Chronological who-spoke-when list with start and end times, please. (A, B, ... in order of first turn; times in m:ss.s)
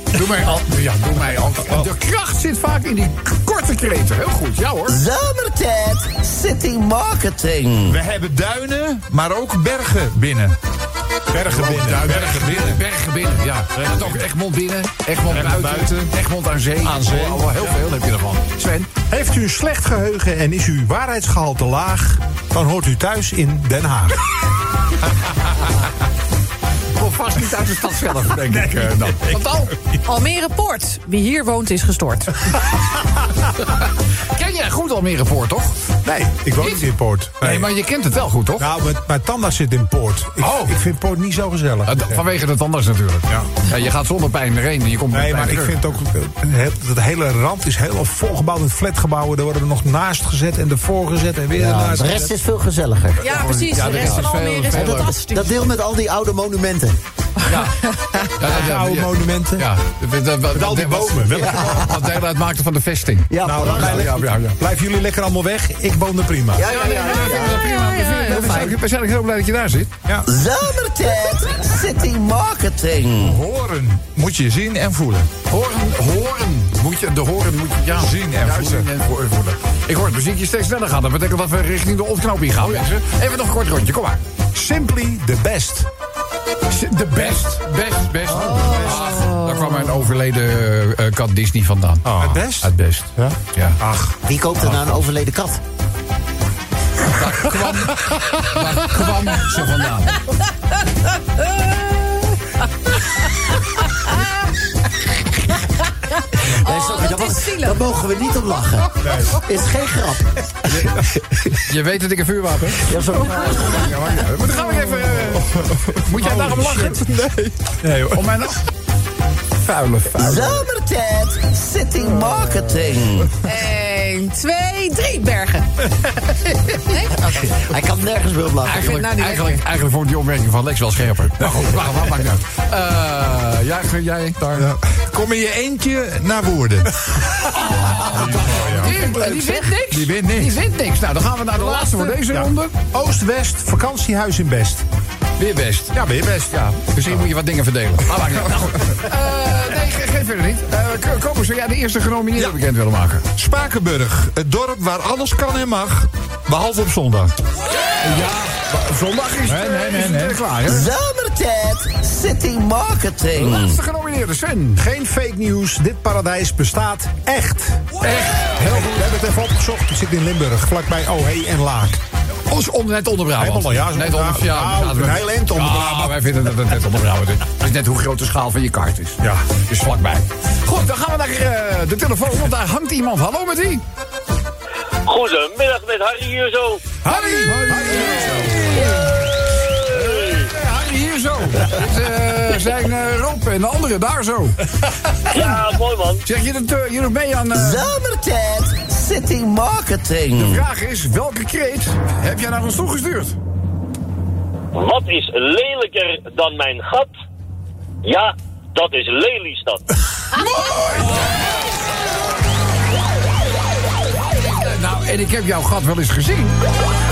0:00.1-0:05.0 A
0:04.9-0:07.9 B
0:07.9-0:10.6 C
0:11.3-0:12.4 D
0:11.4-0:12.8 C
0:11.9-0:18.9 A
0:13.8-0:14.1 C
0:15.3-0:16.1 C
0:16.8-0:17.5 D
0:19.1-0:24.2 D
0:26.9-0:29.8 A
0:30.0-0:32.5 E
0:33.6-0:35.8 A
0:36.0-0:37.7 D
0:36.6-0:36.9 A
0:37.4-0:38.7 A
0:38.6-0:42.2 D
0:40.4-0:40.8 A
0:41.8-0:45.8 A
0:45.1-0:52.3 D
0:51.5-0:57.0 F
0:53.2-0:55.2 A
0:53.2-0:55.6 E
0:57.4-0:57.7 A
0:58.3-1:04.6 A
0:58.4-0:59.7 D
1:00.5-1:01.9 D
1:01.4-1:01.8 F
1:03.3-1:04.1 F
1:03.4-1:06.6 D
1:06.6-1:07.6 F
1:06.6-1:09.9 A
1:06.7-1:08.7 E
1:08.4-1:08.7 F
1:10.3-1:13.3 B
1:13.2-1:15.3 C
1:15.5-1:24.2 A
1:18.0-1:18.9 C
1:24.5-1:25.9 D
1:26.7-1:32.0 A
1:28.4-1:29.9 E
1:28.5-1:28.9 F
1:32.0-1:32.6 C
1:32.2-1:32.7 D
1:32.6-1:33.8 A
1:33.2-1:34.8 D
1:34.2-1:35.6 F
1:37.1-1:40.2 A
1:46.5-1:50.3 F
1:46.6-1:47.8 E
1:49.0-1:49.4 D
1:50.7-1:57.1 A
1:52.8-1:53.8 F
1:55.8-1:56.7 D
1:56.2-1:57.5 C
1:57.8-1:58.2 D
1:58.1-1:58.6 A
1:59.6-2:00.6 A
2:00.2-2:03.3 B
2:03.4-2:07.2 E
2:07.1-2:08.9 F
2:08.6-2:14.7 A
2:08.7-2:09.6 E
2:14.5-2:17.5 C
2:17.4-2:22.7 A
2:18.0-2:20.6 C
2:18.5-2:18.9 D
2:19.2-2:19.5 E
2:22.3-2:24.8 D
2:25.4-2:25.9 A
2:25.9-2:26.6 D
2:26.5-2:33.2 A
2:33.4-2:37.4 C
2:38.0-2:40.9 A
2:39.5-2:40.4 C
2:40.6-2:43.7 B
2:43.3-2:44.8 A
2:44.8-2:52.0 D
2:48.0-2:49.0 A
2:52.5-3:03.8 A
2:53.4-2:56.2 D
2:59.2-2:59.4 D
3:05.0-3:06.8 G
3:07.0-3:08.7 D
3:07.1-3:14.6 A
3:07.5-3:08.6 C
3:09.6-3:10.5 G
3:15.3-3:16.2 G
3:15.3-3:15.6 A
3:16.2-3:17.9 A
3:17.5-3:20.6 B
3:20.3-3:23.4 A
3:24.7-3:27.1 G
3:28.0-3:29.9 G
3:30.3-3:31.4 A
3:30.3-3:30.8 E
3:34.1-3:36.6 A